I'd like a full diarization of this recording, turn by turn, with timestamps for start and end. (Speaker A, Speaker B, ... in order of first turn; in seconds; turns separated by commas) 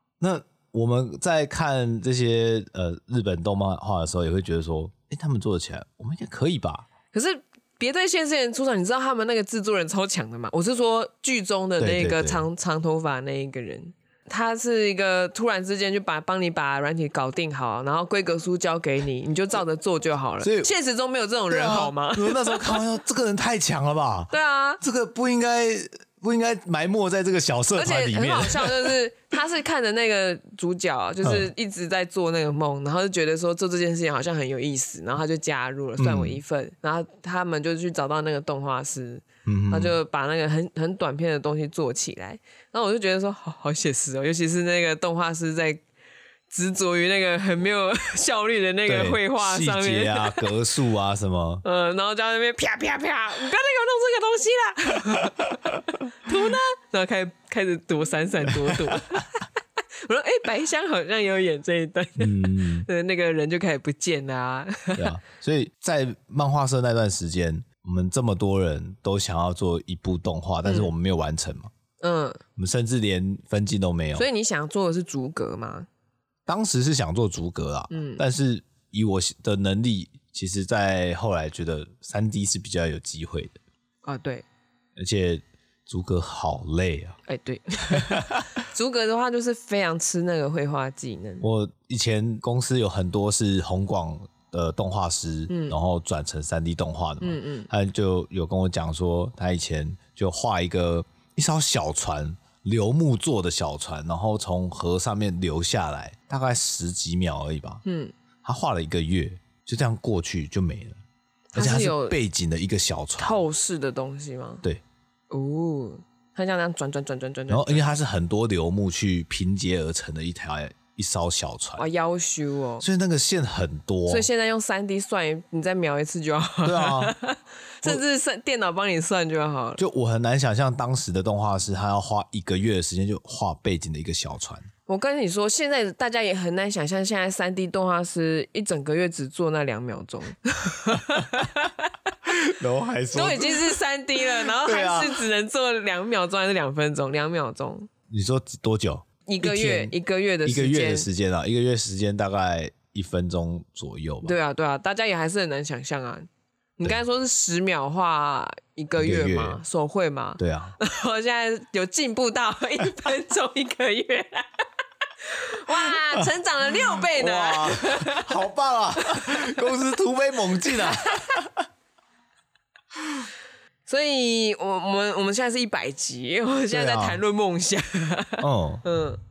Speaker A: 0.2-6.9, Speaker B: 7.1-22.8, Speaker A: 11.8-12.4, Speaker A: 20.4-20.7, Speaker A: 21.5-28.9, Speaker B: 24.3-24.8, Speaker B: 27.7-45.8, Speaker A: 31.2-31.5, Speaker A: 36.0-36.4, Speaker A: 39.5-40.0, Speaker B: 46.5-50.5, Speaker A: 48.9-51.6, Speaker B: 51.6-59.5, Speaker A: 58.6-59.2, Speaker B: 60.0-65.1, Speaker A: 62.2-62.9, Speaker A: 65.0-71.7, Speaker B: 70.6-70.9, Speaker B: 72.0-72.4, Speaker A: 72.6-74.2, Speaker B: 74.1-75.9, Speaker A: 76.5-83.6, Speaker B: 77.9-78.2, Speaker B: 84.0-84.4, Speaker A: 85.0-87.2, Speaker B: 87.3-91.5, Speaker A: 87.9-88.5, Speaker A: 91.4-107.8, Speaker B: 95.5-95.8, Speaker B: 97.2-97.7, Speaker B: 107.8-108.1, Speaker A: 108.4-111.0, Speaker B: 111.5-112.2, Speaker A: 111.5-113.4, Speaker B: 113.2-114.6, Speaker B: 115.3-118.0, Speaker A: 117.5-121.8, Speaker B: 121.8-122.9, Speaker A: 122.8-124.3, Speaker B: 124.1-129.8, Speaker A: 126.6-127.1, Speaker A: 129.8-134.7, Speaker B: 134.9-141.9, Speaker A: 142.2-143.7, Speaker B: 143.1-147.9, Speaker A: 144.4-145.2, Speaker A: 148.1-149.9, Speaker B: 149.2-151.1, Speaker A: 150.4-154.4, Speaker B: 154.2-164.5, Speaker A: 159.0-159.6, Speaker A: 160.4-160.8, Speaker B: 165.2-168.3, Speaker A: 166.9-171.6, Speaker B: 169.0-169.6, Speaker B: 170.7-171.4, Speaker B: 173.9-179.2, Speaker A: 176.7-177.2, Speaker A: 178.4-178.8